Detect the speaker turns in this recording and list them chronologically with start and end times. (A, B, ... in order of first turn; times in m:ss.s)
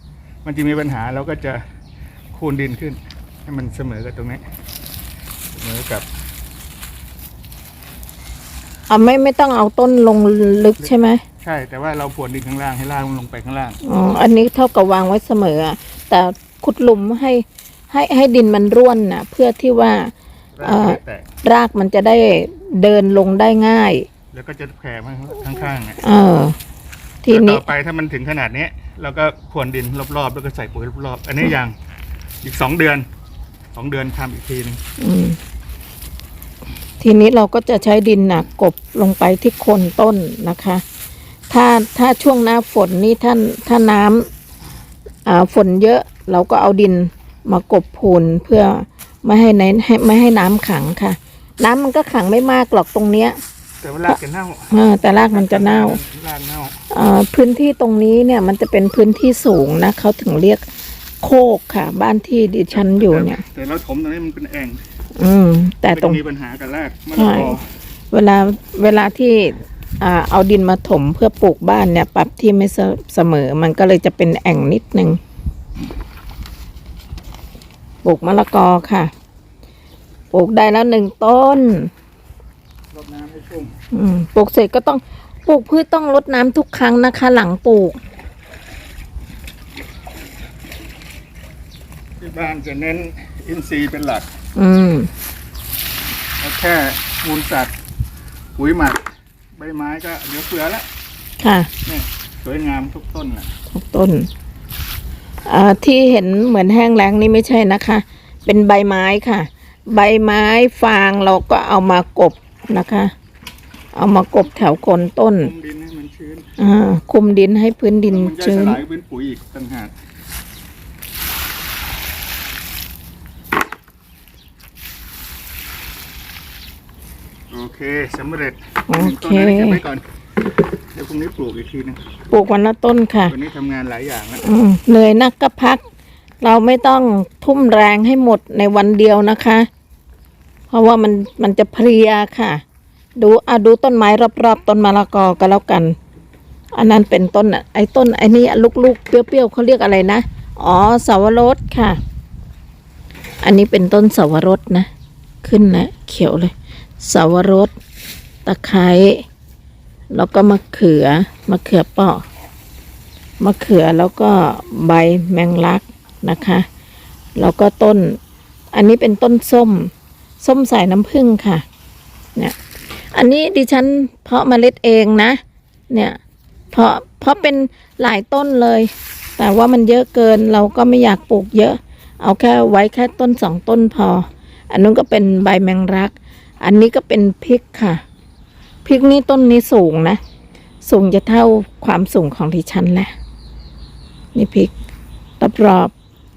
0:00.4-0:01.6 A
0:02.3-0:04.4 A
0:05.5-0:06.1 A
0:08.9-0:11.2 B
0:11.4-0:13.8 A
0:13.8-0:20.1 B
0:20.6-0:21.3 A
0:20.6-0:24.1 B
0:24.3-0:26.0 A
0:26.0-0:26.6 B
0:27.2-0:27.6 B
0:27.3-0:31.8 A
0:32.4-0:33.1 A
0:33.7-0:34.8 A
0:35.0-0:35.4 B
0:37.0-0:40.8 B
0:41.5-0:44.3 B
0:45.3-0:53.4 B
0:53.8-0:54.7 A
0:54.7-0:56.0 B
0:55.3-0:56.8 A
0:56.9-1:00.6 B
1:01.2-1:03.4 B
1:02.7-1:04.8 A
1:05.2-1:06.2 B
1:05.9-1:07.6 A
1:07.2-1:07.6 B
1:08.1-1:15.2 B
1:18.0-1:19.1 B
1:20.3-1:21.9 B
1:22.9-1:23.8 A
1:23.9-1:28.0 B
1:32.2-1:34.3 A
1:34.6-1:35.1 B
1:36.4-1:37.7 A
1:38.6-1:40.9 A
1:41.4-1:41.7 B
1:41.8-1:43.5 A
1:43.7-1:44.3 B
1:45.5-1:53.1 B
1:53.9-1:55.5 B
1:55.4-1:56.5 A
1:56.6-1:58.8 B
1:58.1-1:59.9 A
2:07.5-2:10.0 A
2:08.9-2:09.8 B
2:10.9-2:12.0 A
2:12.3-2:13.4 B
2:13.3-2:14.4 A
2:14.4-2:15.8 B
2:16.4-2:19.7 B
2:20.7-2:22.6 B
2:23.2-2:26.0 B
2:26.7-2:32.0 B
2:33.4-2:34.9 B
2:35.4-2:37.7 B
2:38.4-2:39.2 B
2:40.1-2:42.2 B
2:43.4-2:46.7 B
2:47.4-2:48.2 B
2:48.7-2:51.6 B
2:53.1-2:56.2 B
2:56.7-3:08.0 B
3:08.8-3:10.2 B
3:10.8-3:13.1 B
3:14.4-3:14.7 B
3:15.4-3:15.9 B